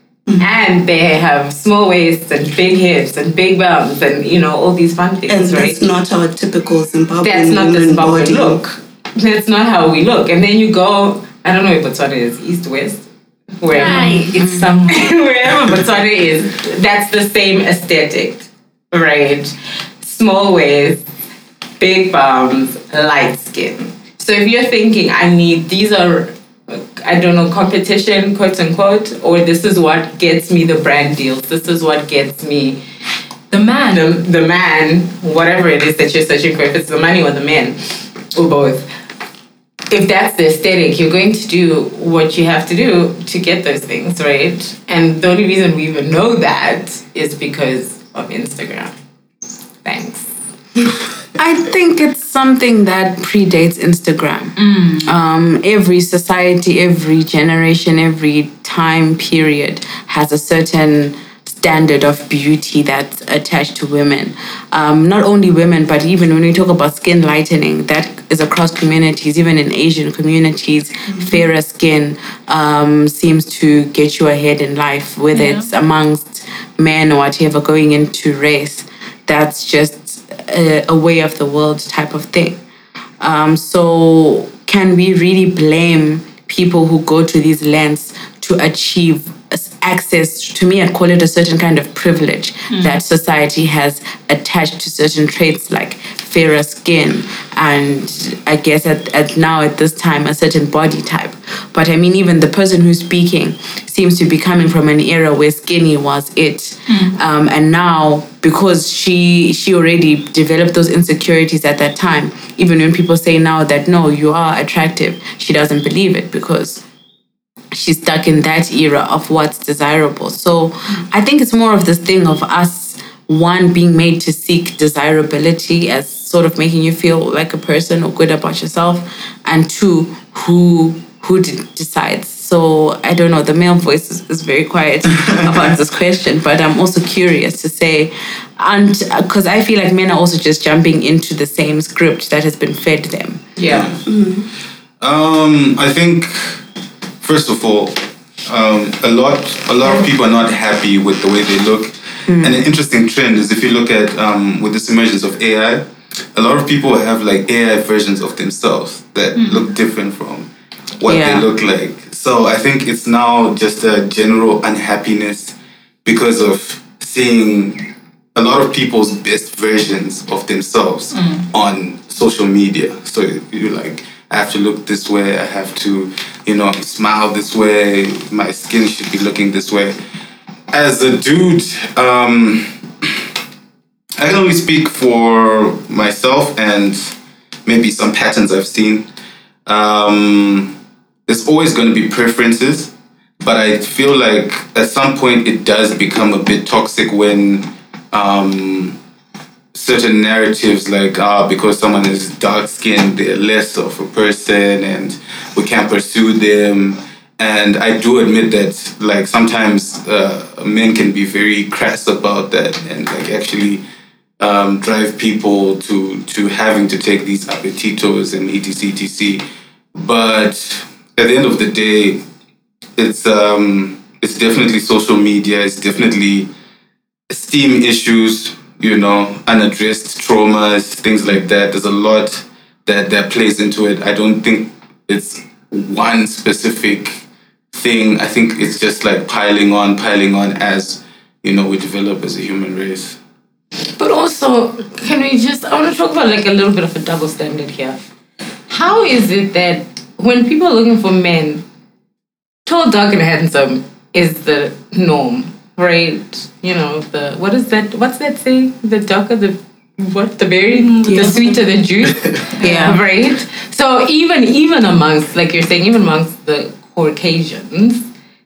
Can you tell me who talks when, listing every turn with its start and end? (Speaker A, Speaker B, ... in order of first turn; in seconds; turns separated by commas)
Speaker A: 0.4-5.9, Speaker B: 5.3-8.6, Speaker A: 7.2-13.1, Speaker A: 13.6-14.4, Speaker C: 13.7-15.2, Speaker D: 14.3-14.7, Speaker A: 14.9-21.1, Speaker A: 21.8-32.8, Speaker C: 33.5-34.1, Speaker A: 33.9-38.9, Speaker A: 39.9-48.9, Speaker A: 49.8-50.4, Speaker D: 51.4-82.6, Speaker C: 54.6-55.1, Speaker C: 75.3-75.7, Speaker D: 83.2-116.8, Speaker C: 92.7-93.0, Speaker C: 106.9-107.2, Speaker D: 117.7-143.5, Speaker A: 143.6-144.0, Speaker E: 143.7-144.1, Speaker B: 144.1-144.5, Speaker E: 145.0-146.6, Speaker E: 147.2-180.0, Speaker D: 152.3-152.6, Speaker C: 159.4-159.7, Speaker D: 161.1-161.5, Speaker C: 171.2-171.4, Speaker E: 180.7-183.2, Speaker E: 184.2-189.1, Speaker E: 189.7-190.8, Speaker E: 191.3-199.0, Speaker E: 199.7-213.8, Speaker E: 214.4-219.4, Speaker E: 219.9-222.2, Speaker E: 223.0-226.5, Speaker E: 227.3-243.2, Speaker A: 244.0-248.1, Speaker A: 248.7-251.6, Speaker A: 252.7-268.1, Speaker C: 260.7-261.6, Speaker D: 261.1-261.6, Speaker C: 262.6-263.0, Speaker D: 262.6-263.0